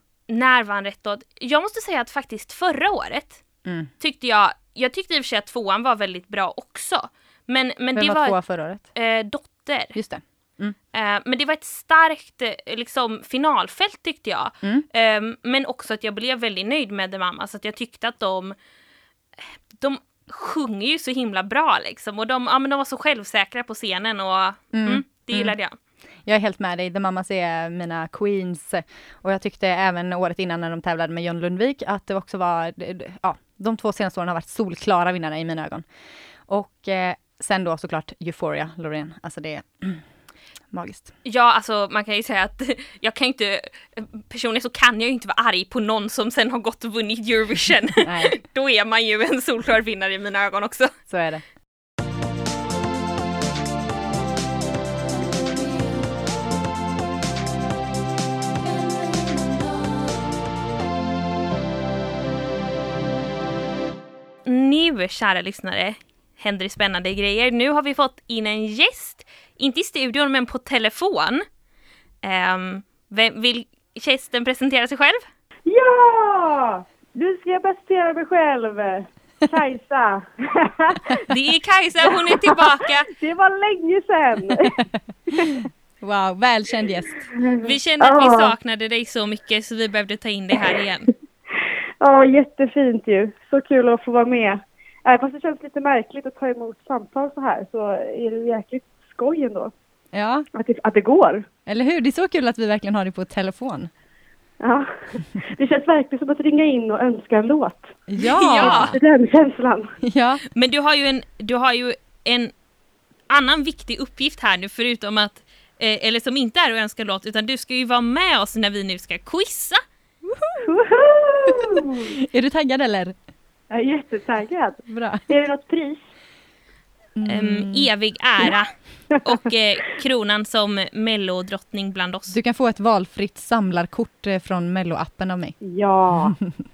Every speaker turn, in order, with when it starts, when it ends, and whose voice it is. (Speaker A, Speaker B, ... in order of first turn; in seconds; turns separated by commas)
Speaker A: 0.3-3.4, Speaker B: 3.6-3.9, Speaker A: 4.0-9.9, Speaker B: 8.0-8.9, Speaker B: 9.9-10.8, Speaker A: 10.9-18.5, Speaker A: 19.4-25.8, Speaker B: 24.7-25.5, Speaker B: 26.2-35.8, Speaker B: 36.5-40.0, Speaker B: 40.7-41.1, Speaker A: 41.2-51.0, Speaker B: 48.0-48.4, Speaker B: 51.1-51.4, Speaker A: 64.4-71.4, Speaker A: 72.2-75.2, Speaker C: 75.7-81.2, Speaker A: 81.3-83.1, Speaker C: 82.1-85.7, Speaker B: 85.4-87.2, Speaker C: 87.3-88.5, Speaker A: 87.6-91.1, Speaker C: 92.0-99.7, Speaker B: 100.1-100.5, Speaker C: 100.5-101.5, Speaker B: 101.7-103.9, Speaker C: 104.6-110.0, Speaker B: 108.1-109.0, Speaker A: 108.2-109.0, Speaker B: 110.0-110.4, Speaker A: 110.5-112.5, Speaker A: 113.3-119.8, Speaker B: 120.2-120.7, Speaker C: 120.6-122.1, Speaker B: 121.5-123.2, Speaker C: 123.7-126.0, Speaker B: 124.9-125.2, Speaker B: 127.2-127.9, Speaker A: 127.2-132.3, Speaker B: 132.3-135.6, Speaker C: 135.6-136.4